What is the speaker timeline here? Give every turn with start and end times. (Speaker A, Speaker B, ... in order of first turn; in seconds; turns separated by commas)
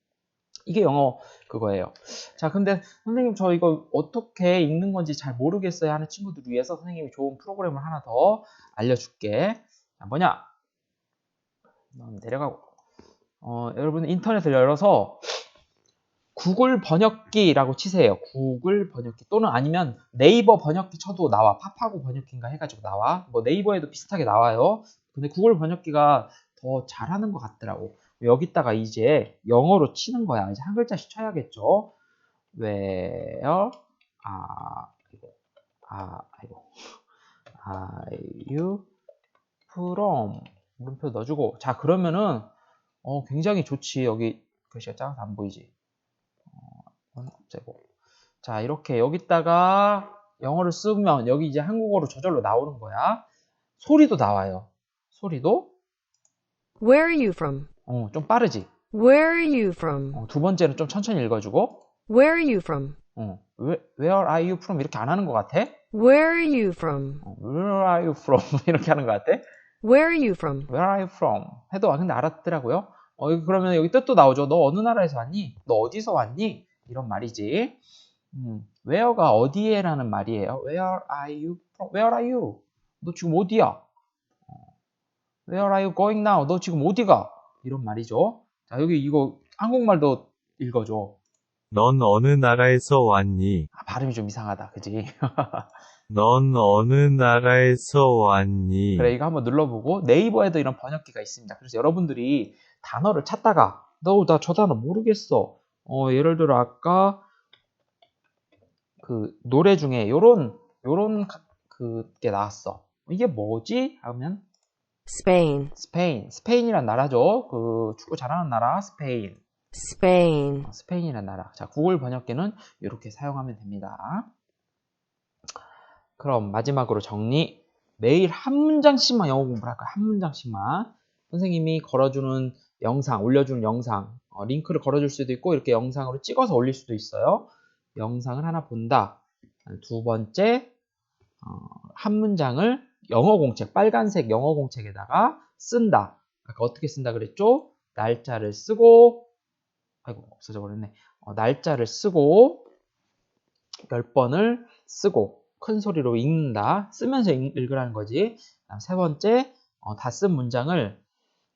Speaker A: 0.7-10.5, Speaker A: 11.9-12.7, Speaker A: 13.4-15.4, Speaker A: 16.4-31.9, Speaker A: 32.5-35.3, Speaker A: 35.9-36.7, Speaker A: 37.6-38.9, Speaker A: 39.7-42.5, Speaker A: 43.0-45.7, Speaker A: 46.5-47.8, Speaker A: 48.4-53.2, Speaker A: 53.8-55.7, Speaker B: 56.8-57.7, Speaker A: 57.9-58.7, Speaker B: 58.9-60.2, Speaker A: 60.1-61.9, Speaker B: 62.1-63.0, Speaker A: 63.2-65.8, Speaker B: 65.9-67.2, Speaker A: 67.2-69.4, Speaker B: 69.8-70.7, Speaker A: 70.7-77.8, Speaker A: 78.3-83.8, Speaker A: 85.5-91.2, Speaker C: 91.7-93.7, Speaker A: 93.7-95.7, Speaker C: 96.1-99.1, Speaker A: 99.0-107.2, Speaker A: 109.0-114.4, Speaker B: 115.1-115.7, Speaker A: 115.8-119.4, Speaker B: 119.8-120.7, Speaker A: 120.6-124.3, Speaker A: 126.2-140.7, Speaker A: 141.4-149.3, Speaker A: 150.1-152.6, Speaker A: 153.9-161.0